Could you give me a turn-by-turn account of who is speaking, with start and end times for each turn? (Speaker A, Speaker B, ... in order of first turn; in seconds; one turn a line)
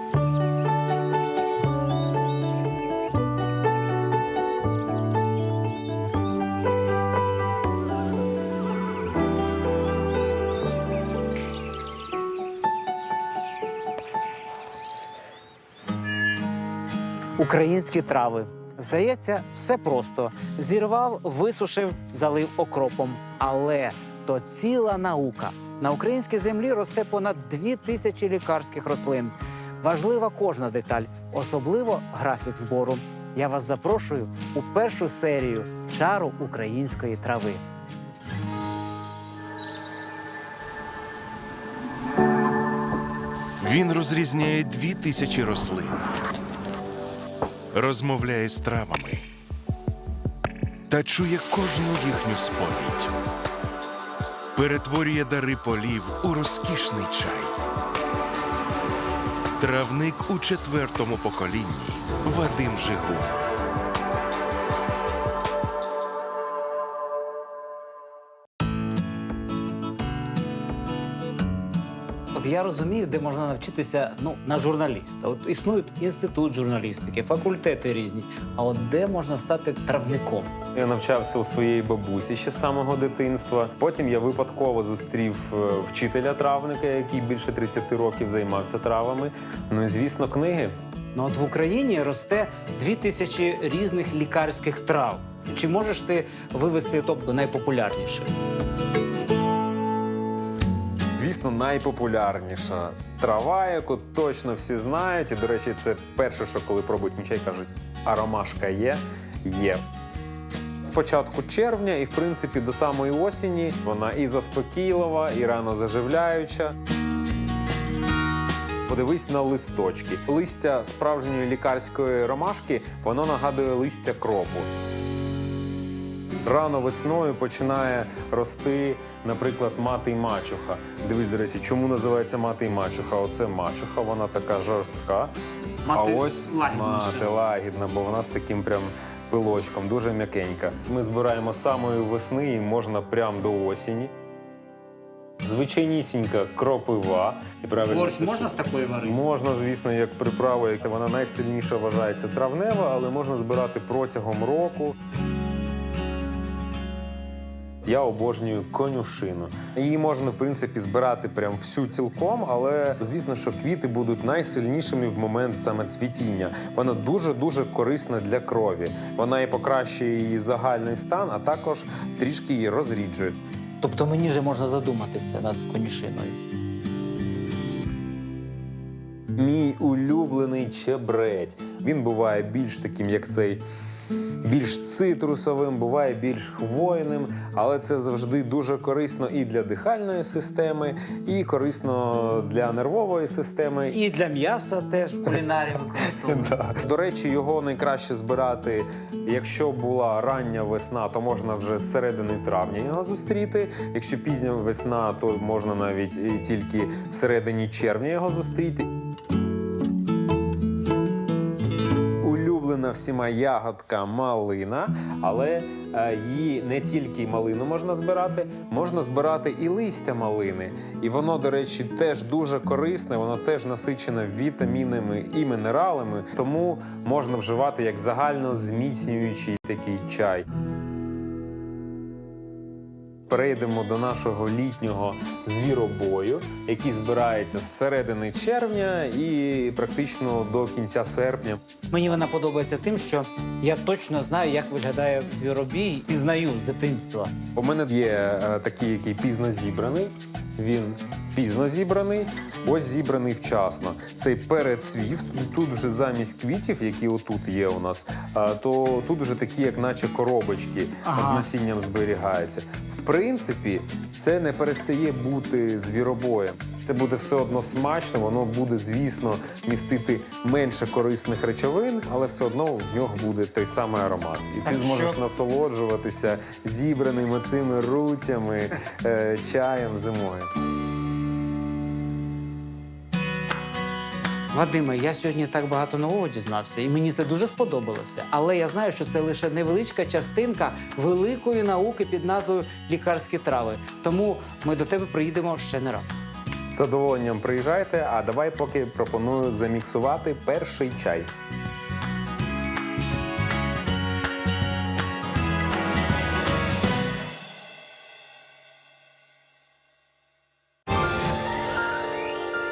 Speaker A: 17.4-37.6
Speaker B: 43.6-46.0
Speaker B: 47.7-49.2
Speaker B: 50.9-53.1
Speaker B: 54.5-57.5
Speaker B: 59.6-63.5
Speaker A: 72.3-80.5
Speaker C: 80.7-90.7
Speaker A: 91.1-98.3
Speaker C: 101.1-109.8
Speaker C: 110.8-116.7
Speaker C: 118.9-124.7
Speaker C: 126.4-135.3
Speaker A: 135.8-137.3
Speaker C: 135.9-144.1
Speaker C: 145.4-155.0
Speaker A: 147.9-149.2
Speaker C: 157.8-173.4
Speaker A: 173.8-176.4
Speaker C: 179.4-183.6
Speaker C: 184.4-194.0
Speaker A: 193.9-196.6
Speaker C: 196.0-208.9
Speaker C: 212.2-230.5
Speaker C: 233.3-241.6
Speaker A: 241.9-247.3
Speaker C: 247.5-280.5
Speaker A: 261.0-261.5
Speaker A: 274.6-275.2
Speaker A: 284.5-296.2
Speaker C: 296.7-301.3